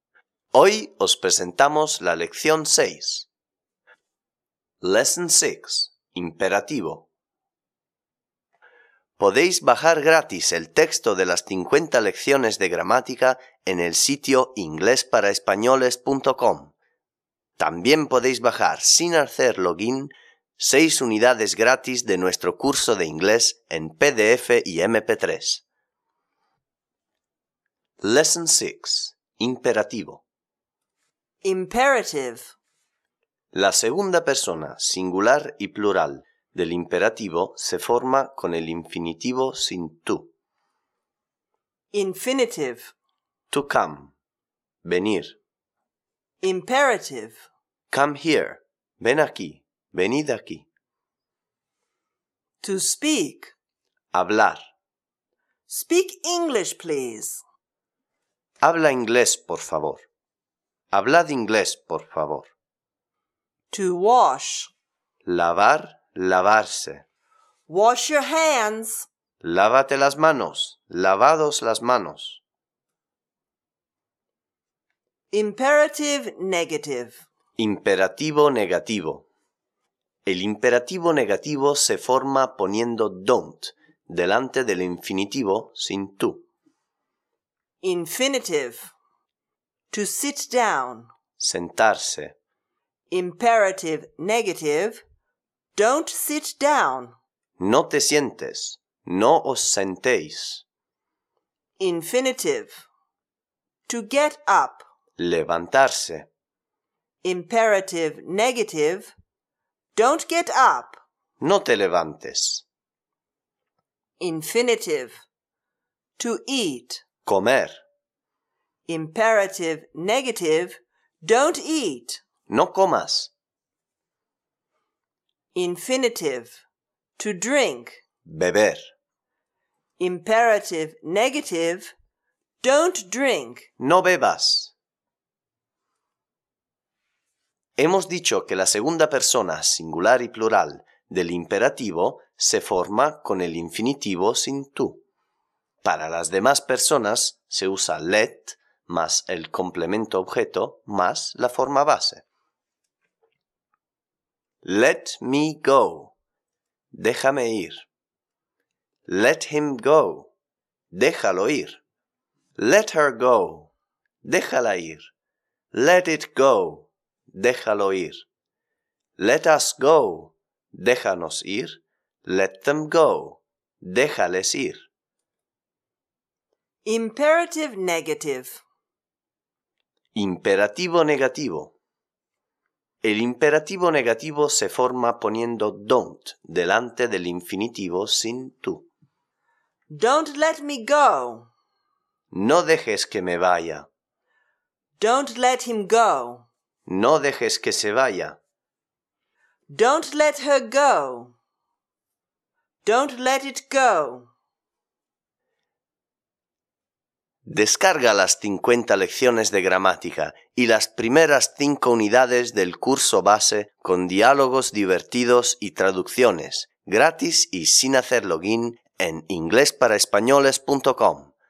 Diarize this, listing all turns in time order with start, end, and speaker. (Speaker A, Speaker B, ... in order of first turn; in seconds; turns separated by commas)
Speaker A: 0.5-3.3, Speaker A: 4.8-7.1, Speaker A: 9.2-16.7, Speaker A: 17.6-25.6, Speaker A: 28.0-30.2, Speaker B: 31.4-32.5, Speaker A: 33.5-40.3, Speaker B: 41.9-42.9, Speaker A: 43.5-44.1, Speaker A: 44.8-45.4, Speaker B: 46.4-47.4, Speaker A: 47.9-50.7, Speaker B: 52.6-53.5, Speaker A: 54.1-54.6, Speaker B: 55.7-57.4, Speaker A: 58.6-60.0, Speaker A: 60.9-62.5, Speaker B: 63.7-64.7, Speaker A: 65.2-67.0, Speaker B: 67.7-69.1, Speaker A: 69.4-72.4, Speaker B: 75.3-77.2, Speaker A: 77.6-79.3, Speaker A: 80.2-86.4, Speaker B: 87.8-88.9, Speaker B: 89.9-91.1, Speaker A: 91.4-92.3, Speaker B: 93.1-95.0, Speaker B: 95.7-97.1, Speaker A: 97.6-100.6, Speaker B: 101.8-102.8, Speaker B: 103.9-104.8, Speaker A: 105.2-106.3, Speaker B: 107.2-109.1, Speaker B: 109.9-111.0, Speaker A: 111.4-112.6, Speaker B: 114.2-115.2, Speaker B: 116.2-117.0, Speaker A: 117.2-117.8, Speaker B: 118.9-122.2, Speaker A: 122.5-123.3, Speaker B: 125.5-126.6, Speaker B: 127.2-128.0, Speaker A: 128.2-128.8, Speaker B: 130.0-131.9, Speaker B: 132.6-133.7, Speaker A: 133.8-134.7, Speaker A: 137.8-145.0, Speaker A: 145.8-152.2, Speaker A: 154.6-156.1, Speaker A: 156.9-157.8, Speaker A: 159.1-160.3, Speaker A: 160.9-161.8, Speaker A: 162.6-163.7, Speaker A: 164.2-165.1, Speaker A: 165.7-168.2, Speaker A: 169.2-174.9, Speaker B: 176.8-178.6, Speaker A: 180.1-181.7, Speaker A: 183.0-188.9, Speaker B: 189.9-191.5, Speaker A: 192.3-193.9, Speaker B: 195.0-196.5, Speaker A: 196.9-198.4, Speaker B: 199.7-201.3, Speaker B: 202.8-204.3, Speaker A: 207.4-221.3